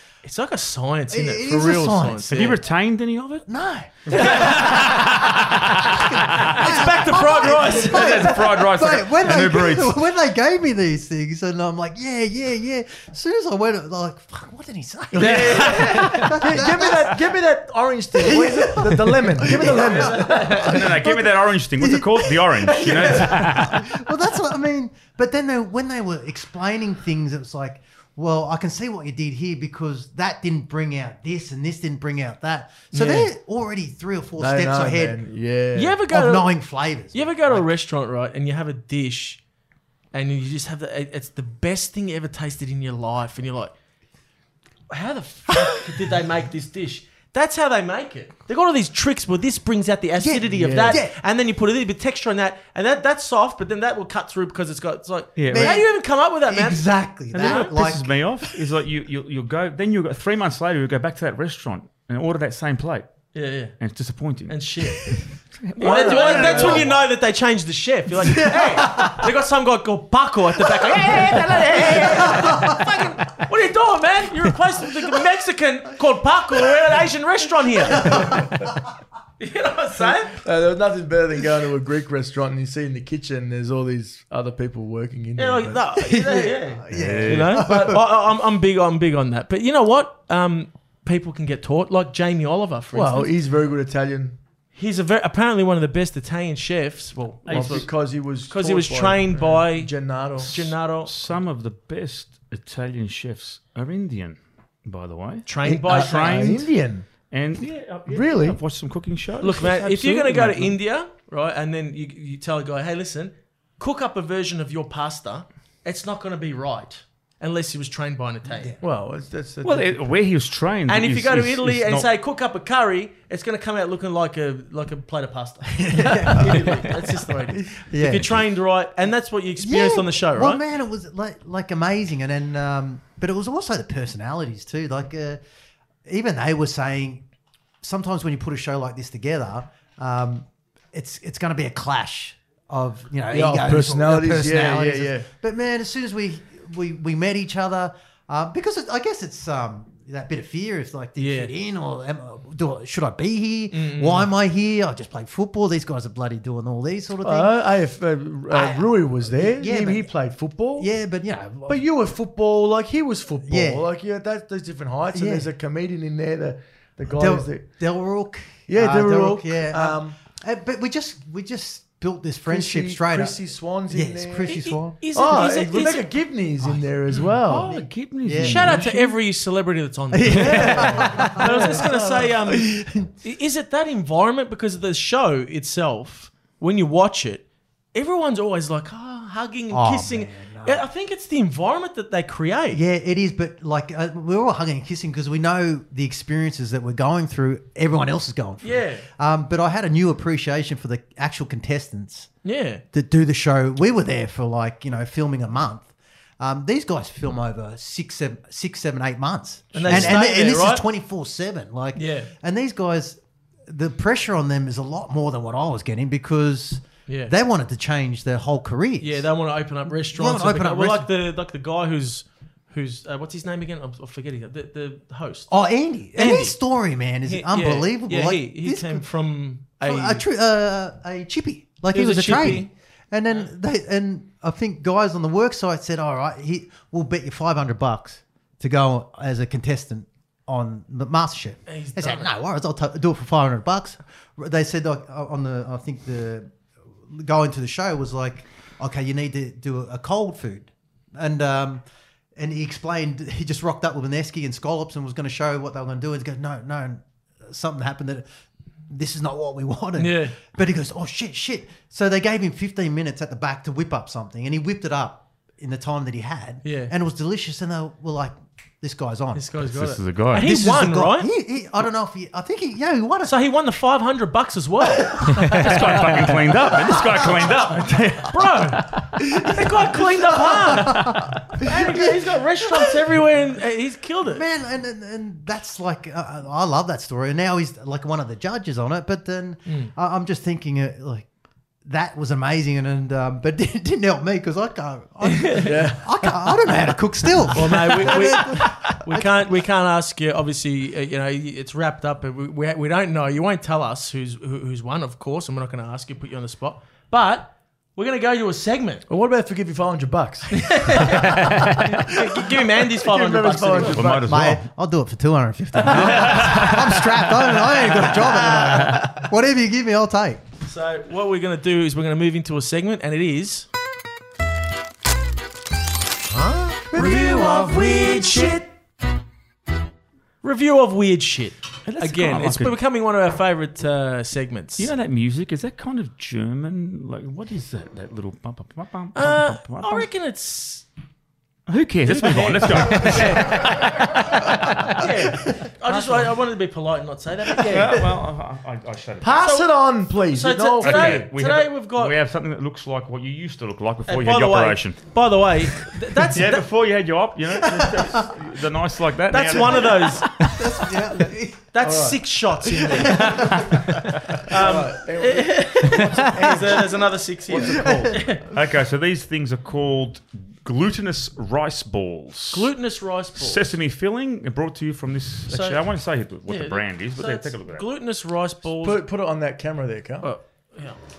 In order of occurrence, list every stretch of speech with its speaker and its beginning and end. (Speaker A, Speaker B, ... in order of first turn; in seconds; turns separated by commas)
Speaker A: 0.2-2.6, Speaker B: 1.1-2.6, Speaker C: 2.3-3.5, Speaker B: 3.5-17.3, Speaker A: 4.1-5.4, Speaker C: 4.1-6.7, Speaker A: 6.4-8.4, Speaker C: 7.6-10.0, Speaker D: 15.1-20.8, Speaker A: 15.2-16.3, Speaker B: 18.1-35.2, Speaker A: 19.6-20.6, Speaker C: 20.3-23.8, Speaker A: 32.9-33.3, Speaker D: 34.4-36.0, Speaker A: 35.7-39.4, Speaker B: 36.1-37.7, Speaker A: 40.1-43.7, Speaker A: 44.9-57.7, Speaker B: 50.2-51.1, Speaker D: 50.5-51.0, Speaker C: 55.4-55.8, Speaker B: 55.5-55.9, Speaker B: 56.4-58.5, Speaker C: 57.3-63.2, Speaker A: 63.3-63.8, Speaker C: 63.8-67.0, Speaker A: 64.5-65.2, Speaker A: 65.8-78.5, Speaker D: 65.8-66.8, Speaker B: 65.9-67.0, Speaker B: 68.3-69.2, Speaker B: 71.8-72.9, Speaker B: 77.9-78.5, Speaker D: 78.2-78.7, Speaker A: 79.4-80.4, Speaker D: 80.3-85.8, Speaker A: 85.3-93.3, Speaker B: 86.0-88.0, Speaker C: 86.9-87.6, Speaker D: 92.9-94.4, Speaker A: 94.7-101.1, Speaker C: 97.5-97.8, Speaker D: 97.5-100.7, Speaker C: 101.0-106.8, Speaker A: 105.5-106.5, Speaker D: 105.6-107.1, Speaker C: 107.3-110.8, Speaker D: 108.0-108.6, Speaker A: 109.4-118.7, Speaker B: 118.5-118.8, Speaker D: 118.8-120.2, Speaker C: 119.6-122.1, Speaker A: 120.9-130.6, Speaker B: 125.9-126.8, Speaker B: 127.7-128.5, Speaker B: 129.6-135.4, Speaker B: 136.0-137.2, Speaker B: 137.8-157.6, Speaker D: 143.3-145.3, Speaker A: 151.2-151.5, Speaker A: 153.7-154.3, Speaker D: 157.2-160.9, Speaker B: 158.5-160.1, Speaker B: 160.8-161.8, Speaker D: 161.7-167.6, Speaker B: 163.4-163.8, Speaker B: 165.1-165.5, Speaker B: 167.1-175.0, Speaker D: 168.7-170.2, Speaker D: 172.4-177.8, Speaker A: 174.4-176.1, Speaker C: 177.4-179.1, Speaker B: 178.2-178.8, Speaker A: 178.4-192.8, Speaker B: 180.1-181.9, Speaker D: 180.3-182.3, Speaker B: 182.6-182.9, Speaker B: 189.7-190.8, Speaker B: 192.7-202.3, Speaker A: 198.6-199.1, Speaker A: 202.4-202.8, Speaker B: 202.9-219.3, Speaker A: 209.7-210.8, Speaker A: 211.9-212.3, Speaker A: 217.1-217.3, Speaker A: 219.0-226.6, Speaker B: 220.1-221.1, Speaker B: 225.5-229.1, Speaker A: 227.2-230.2, Speaker B: 229.8-246.5, Speaker A: 231.9-232.7, Speaker A: 241.7-242.3, Speaker B: 247.1-251.8, Speaker B: 252.3-258.3, Speaker B: 258.9-269.5, Speaker A: 260.0-260.4, Speaker A: 266.6-266.9, Speaker A: 269.3-271.3, Speaker C: 269.6-270.4, Speaker B: 270.3-273.3, Speaker A: 273.2-276.3, Speaker C: 275.3-279.1, Speaker B: 276.9-277.2, Speaker A: 278.3-284.4, Speaker B: 280.2-282.9, Speaker C: 280.9-281.3, Speaker B: 284.2-291.3, Speaker B: 291.8-299.5, Speaker A: 295.2-295.8, Speaker D: 295.6-296.1, Speaker A: 297.5-309.0, Speaker D: 309.1-314.3, Speaker A: 310.5-314.0, Speaker C: 311.2-311.9, Speaker C: 313.9-314.6, Speaker B: 314.1-320.4, Speaker A: 315.9-316.8, Speaker C: 315.9-317.1, Speaker A: 317.9-319.0, Speaker A: 320.6-323.7, Speaker A: 326.3-328.6, Speaker D: 326.9-328.6, Speaker A: 330.4-334.9, Speaker C: 331.9-332.8, Speaker C: 334.8-340.1, Speaker A: 339.1-340.9, Speaker C: 341.7-345.1, Speaker A: 342.0-348.0, Speaker B: 345.6-346.2, Speaker C: 347.6-349.5, Speaker B: 347.7-348.1, Speaker D: 349.2-351.2, Speaker A: 349.4-352.2, Speaker C: 350.8-355.0, Speaker A: 354.1-356.7, Speaker C: 355.7-360.3, Speaker B: 357.5-358.3, Speaker A: 359.3-360.3, Speaker B: 360.4-361.7, Speaker A: 361.7-368.5, Speaker D: 361.8-362.2, Speaker D: 362.8-363.1, Speaker B: 362.9-363.7, Speaker C: 364.1-364.4, Speaker D: 364.5-366.9, Speaker D: 367.5-368.2, Speaker B: 367.8-368.1, Speaker C: 368.5-372.7, Speaker A: 372.5-373.7, Speaker C: 373.4-377.9, Speaker A: 375.5-375.8, Speaker A: 376.4-379.0, Speaker D: 378.8-380.3, Speaker A: 380.2-381.0